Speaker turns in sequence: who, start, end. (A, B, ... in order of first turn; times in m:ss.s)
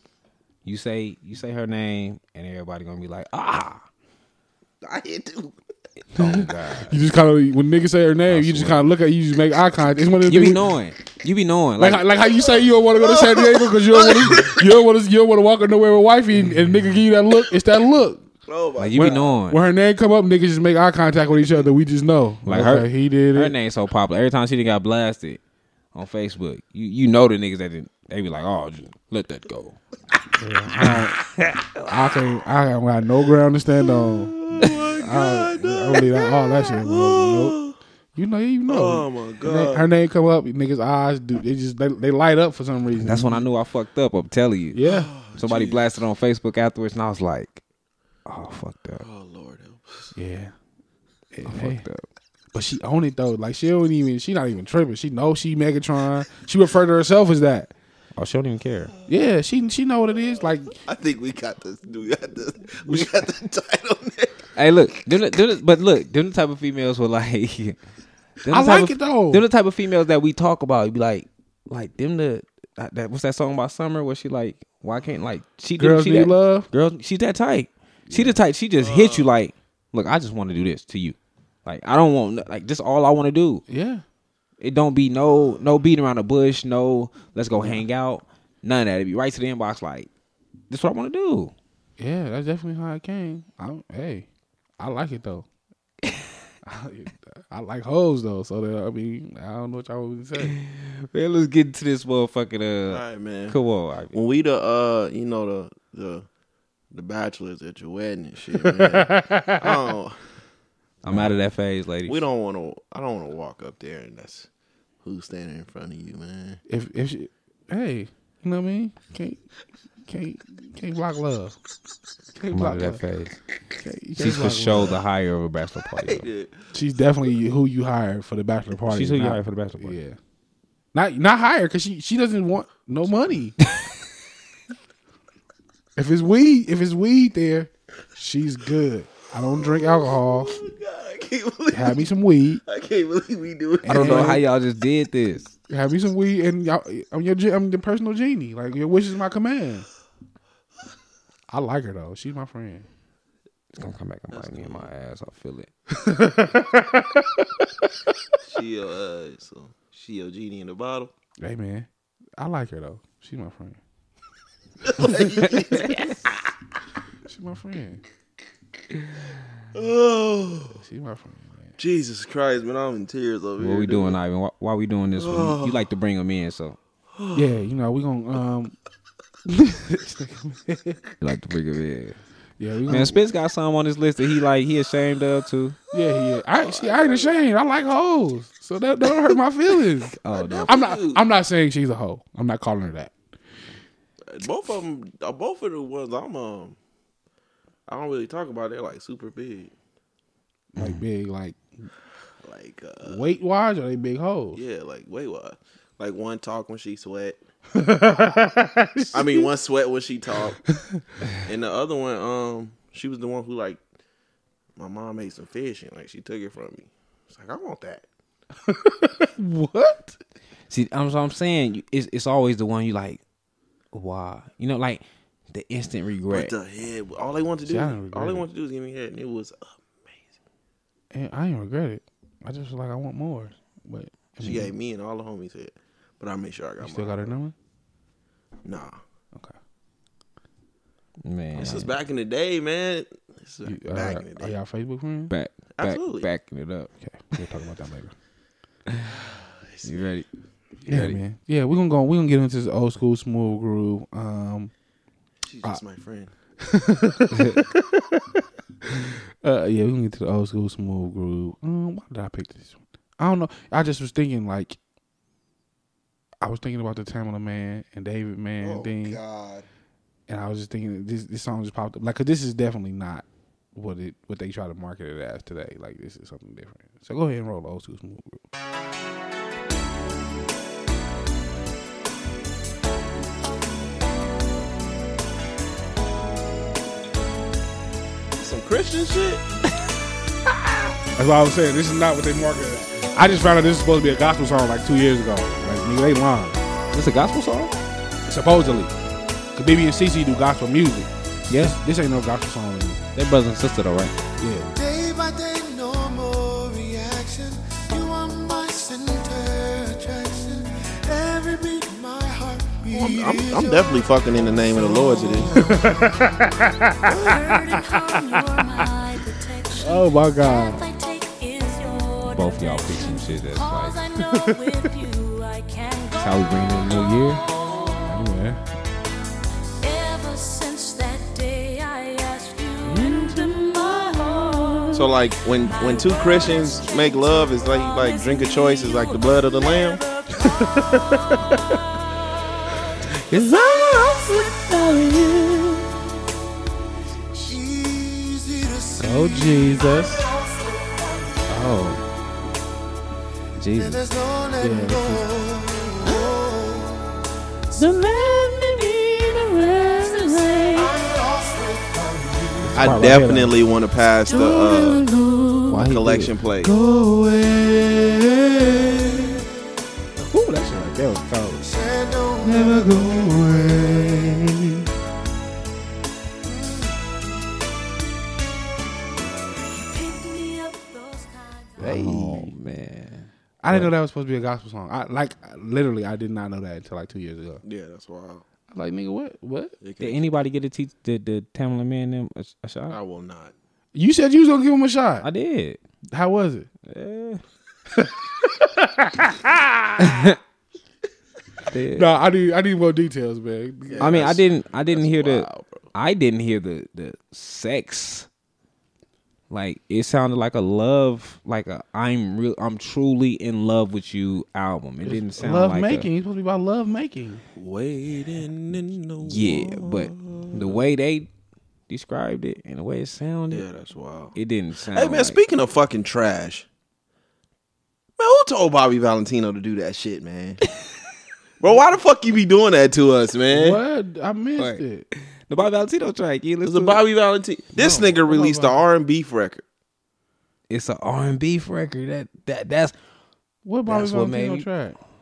0:00.6-0:03.8 A
0:04.8-0:05.6 B
0:06.1-0:07.0 A
0:06.2-0:10.7 C
0:08.2-0:08.9 A
0:10.2-0:12.0 A
0:11.8-0:18.3 C
0:12.4-0:14.7 B
0:18.5-0:19.4 B
0:18.8-0:19.6 A
0:18.9-0:23.5 C
0:22.4-0:25.4 A
0:25.9-0:29.8 A
0:30.4-0:31.2 C
0:30.8-0:31.9 A
0:31.9-0:34.4 C
0:34.2-0:37.8 B
0:35.0-0:37.6 C
0:38.1-0:43.4 C
0:38.7-0:39.9 B
0:43.0-0:44.8 A
0:44.7-0:45.1 C
0:44.8-0:45.8 B
0:45.3-0:47.6 A
0:48.2-0:49.0 A
0:49.0-0:50.1 B
0:50.2-0:50.5 C
0:51.3-0:51.9 C
0:51.4-0:52.0 A
0:52.5-0:57.7 C
0:58.1-0:58.9 A
0:59.1-1:00.8 C
1:00.7-1:04.5 B
1:04.6-1:07.8 A
1:08.4-1:23.6 A
1:08.5-1:09.4 C
1:15.8-1:16.7 C
1:18.1-1:18.4 C
1:18.8-1:19.3 B
1:23.7-1:24.0 C
1:24.6-1:30.1 A
1:27.5-1:27.8 C
1:30.7-1:31.5 A
1:32.0-1:34.3 C
1:34.8-1:35.5 C
1:36.6-1:40.6 C
1:40.4-1:44.2 A
1:42.9-1:43.6 B
1:44.1-1:46.2 B
1:46.9-1:50.2 B
1:49.0-1:49.6 C
1:51.0-1:52.2 A
1:52.0-1:54.5 B
1:55.0-1:56.6 B
1:56.7-1:59.4 C
2:00.0-2:01.6 C
2:02.3-2:03.0 C
2:02.5-2:03.4 A
2:03.8-2:05.0 C
2:04.2-2:06.3 A
2:06.0-2:06.6 B
2:06.7-2:10.2 C
2:08.9-2:10.0 A
2:10.9-2:13.6 C
2:16.0-2:20.7 C
2:19.6-2:22.1 B
2:21.7-2:22.6 C
2:22.6-2:24.4 B
2:23.8-2:24.4 C
2:23.9-2:25.5 A
2:25.7-2:29.9 C
2:31.5-2:32.9 C
2:33.7-2:35.7 A
2:34.3-2:34.9 B
2:36.1-2:37.2 C
2:38.4-2:41.1 B
2:41.4-2:43.8 C
2:44.8-2:46.3 B
2:45.4-2:46.1 A
2:47.3-2:48.0 C
2:49.7-2:50.8 B
2:50.7-2:51.8 C
2:51.8-2:54.2 B
2:53.6-2:56.8 A
2:55.2-2:55.8 B
2:57.2-2:57.5 B
2:57.3-2:58.8 C
2:59.5-3:01.0 C
3:01.2-3:02.2 A
3:02.6-3:03.2 C
3:02.9-3:05.8 A
3:05.9-3:13.1 C
3:05.9-3:07.4 B
3:10.1-3:10.7 A
3:10.3-3:11.2 B
3:14.3-3:16.8 B
3:17.9-3:19.7 B
3:20.7-3:21.6 C
3:20.8-3:21.0 A
3:22.4-3:23.2 B
3:23.0-3:24.6 C
3:24.5-3:27.4 B
3:27.7-3:29.5 C
3:29.1-3:30.6 B
3:31.4-3:33.8 B
3:34.8-3:38.0 B
3:38.7-3:40.2 C
3:40.7-3:43.2 A
3:43.9-3:46.5 A
3:46.3-3:50.2 B
3:47.6-3:48.5 C
3:51.1-3:54.7 C
3:54.4-3:57.3 B
3:56.8-3:57.5 C
3:58.6-3:59.0 B
4:01.2-4:01.9 A
4:01.5-4:04.5 B
4:03.6-4:05.3 C
4:05.3-4:06.9 A
4:05.7-4:06.3 B
4:07.0-4:08.1 C
4:09.0-4:10.1 B
4:09.8-4:10.3 A
4:10.8-4:11.2 A
4:10.8-4:14.7 C
4:15.4-4:16.3 B
4:16.6-4:18.4 C
4:17.3-4:17.6 A
4:19.0-4:24.8 C
4:26.4-4:29.2 C
4:28.6-4:29.6 B
4:30.3-4:38.4 C
4:48.4-4:49.4 B
4:51.2-4:56.6 C
4:56.9-4:57.7 A
4:58.2-4:58.9 C
4:59.5-5:03.0 C
5:01.5-5:01.8 A
5:03.1-5:04.2 A
5:04.4-5:04.7 C
5:04.7-5:16.3 D
5:12.9-5:15.6 B
5:15.6-5:17.4 C
5:17.1-5:28.2 E
5:17.1-5:17.5 D
5:19.8-5:20.8 C
5:22.2-5:24.0 A
5:26.2-5:27.4 A
5:28.0-5:28.6 C
5:29.8-5:40.9 E
5:32.8-5:33.6 A
5:34.9-5:40.0 B
5:43.3-5:45.8 A
5:43.5-5:44.7 E
5:47.4-5:51.5 D
5:49.0-5:50.2 C
5:51.5-5:52.0 A
5:53.6-5:54.0 A
5:53.8-5:57.1 D
5:54.6-5:55.2 C
5:58.3-6:00.9 E
6:00.2-6:00.5 A
6:00.7-6:03.0 D
6:02.6-6:03.6 C
6:02.7-6:05.0 B
6:04.2-6:05.8 E
6:04.3-6:05.1 C
6:05.6-6:09.3 C
6:05.7-6:06.7 B
6:07.9-6:09.4 D
6:10.2-6:11.7 C
6:11.6-6:14.1 D
6:12.4-6:14.9 C
6:16.4-6:17.0 D
6:19.7-6:21.8 E
6:21.8-6:22.5 C
6:21.8-6:23.9 A
6:23.6-6:27.6 C
6:27.6-6:28.4 B
6:28.7-6:29.7 C
6:29.8-6:30.4 B
6:30.0-6:33.0 A
6:32.9-6:33.5 B
6:33.9-6:35.3 C
6:35.2-6:35.8 A
6:36.1-6:36.7 C
6:36.8-6:37.4 A
6:38.0-6:40.1 C
6:40.0-6:40.4 A
6:41.7-6:42.1 A
6:41.9-6:44.3 C
6:43.9-6:45.9 B
6:44.0-6:48.3 A
6:49.5-6:56.1 A
6:55.0-6:57.4 C
6:57.5-7:00.8 B
6:59.2-7:01.3 A
7:01.9-7:03.6 A
7:03.5-7:04.4 B
7:04.3-7:05.4 A
7:04.9-7:06.7 B
7:08.2-7:10.6 B
7:11.6-7:13.8 B
7:13.5-7:15.0 C
7:14.6-7:17.0 A
7:16.6-7:19.6 B
7:17.7-7:18.8 C
7:20.7-7:22.9 A
7:23.6-7:25.0 C
7:23.9-7:24.7 A